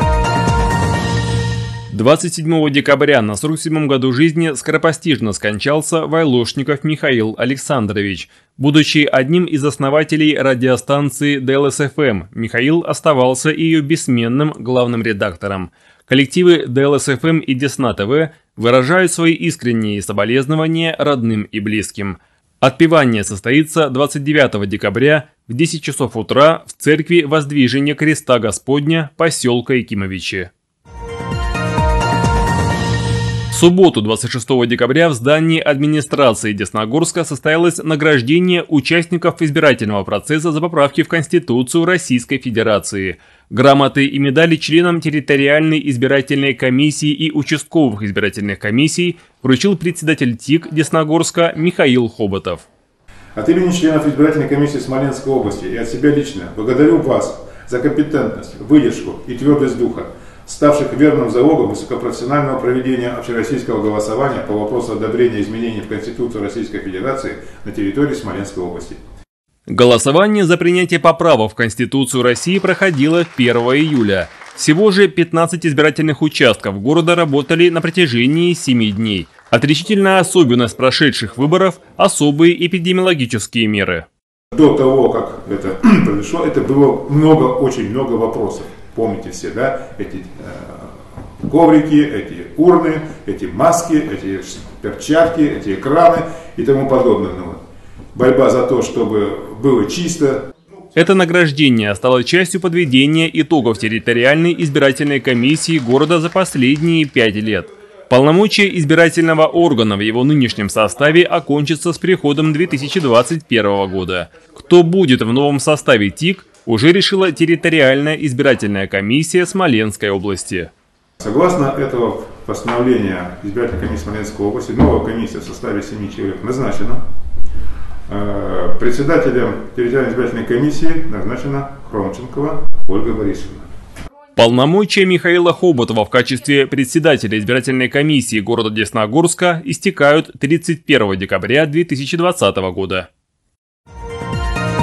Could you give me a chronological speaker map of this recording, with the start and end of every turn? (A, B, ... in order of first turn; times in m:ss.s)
0:01.9-0:30.5 A
0:33.5-0:52.7 A
0:53.4-1:09.0 B
1:09.7-1:24.1 A
1:24.5-1:37.6 B
1:38.1-1:40.4 B
1:40.9-2:00.7 A
2:01.2-2:07.0 B
2:08.1-2:13.7 B
2:14.4-2:23.1 A